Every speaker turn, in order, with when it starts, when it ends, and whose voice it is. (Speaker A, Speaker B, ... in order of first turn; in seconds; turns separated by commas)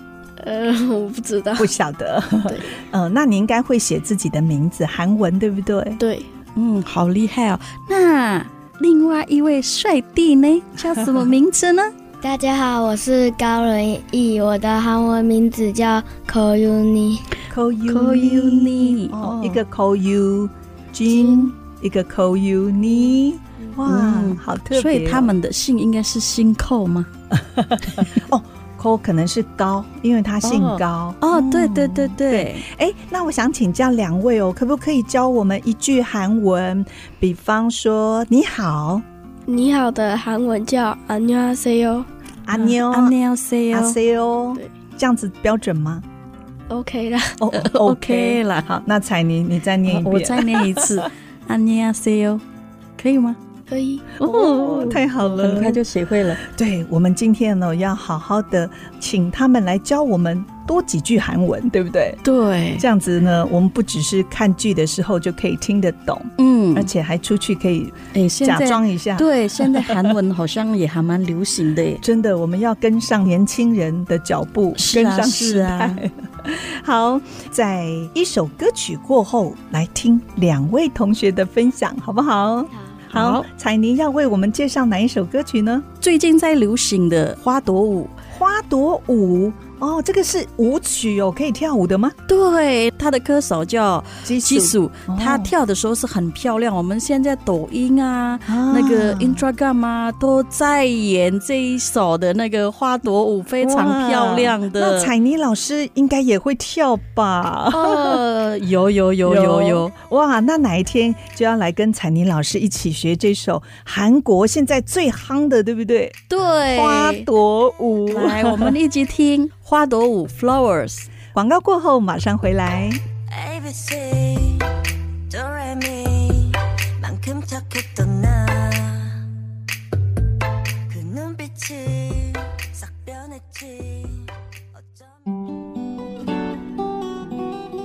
Speaker A: 0.4-1.7, Speaker B: 1.6-6.0, Speaker A: 2.5-2.7, Speaker A: 6.0-6.3, Speaker C: 6.5-11.9, Speaker D: 12.2-17.3, Speaker B: 17.5-25.3, Speaker C: 17.9-19.6, Speaker C: 23.9-27.1, Speaker B: 27.3-39.0, Speaker C: 30.4-32.6, Speaker A: 39.5-42.1, Speaker B: 42.5-43.1, Speaker C: 42.5-44.0, Speaker B: 43.7-46.0, Speaker A: 46.7-47.4, Speaker B: 47.4-51.1, Speaker C: 47.5-48.7, Speaker C: 49.9-52.4, Speaker C: 53.0-53.4, Speaker A: 53.7-54.1, Speaker B: 54.2-55.8, Speaker C: 54.2-56.4, Speaker B: 56.4-62.2, Speaker C: 62.2-62.9, Speaker B: 62.8-70.1, Speaker C: 66.4-66.9, Speaker C: 68.1-72.0, Speaker B: 72.0-85.8, Speaker C: 74.8-76.0, Speaker C: 83.1-83.5, Speaker C: 86.0-88.1, Speaker B: 88.3-92.2, Speaker C: 92.3-105.1, Speaker B: 94.2-95.5, Speaker B: 98.5-99.4, Speaker B: 103.6-108.2, Speaker C: 107.7-109.9, Speaker B: 109.2-118.7, Speaker C: 116.3-117.3, Speaker C: 118.1-121.1, Speaker B: 121.3-123.0, Speaker E: 123.4-124.6, Speaker E: 125.4-129.1, Speaker E: 131.0-134.0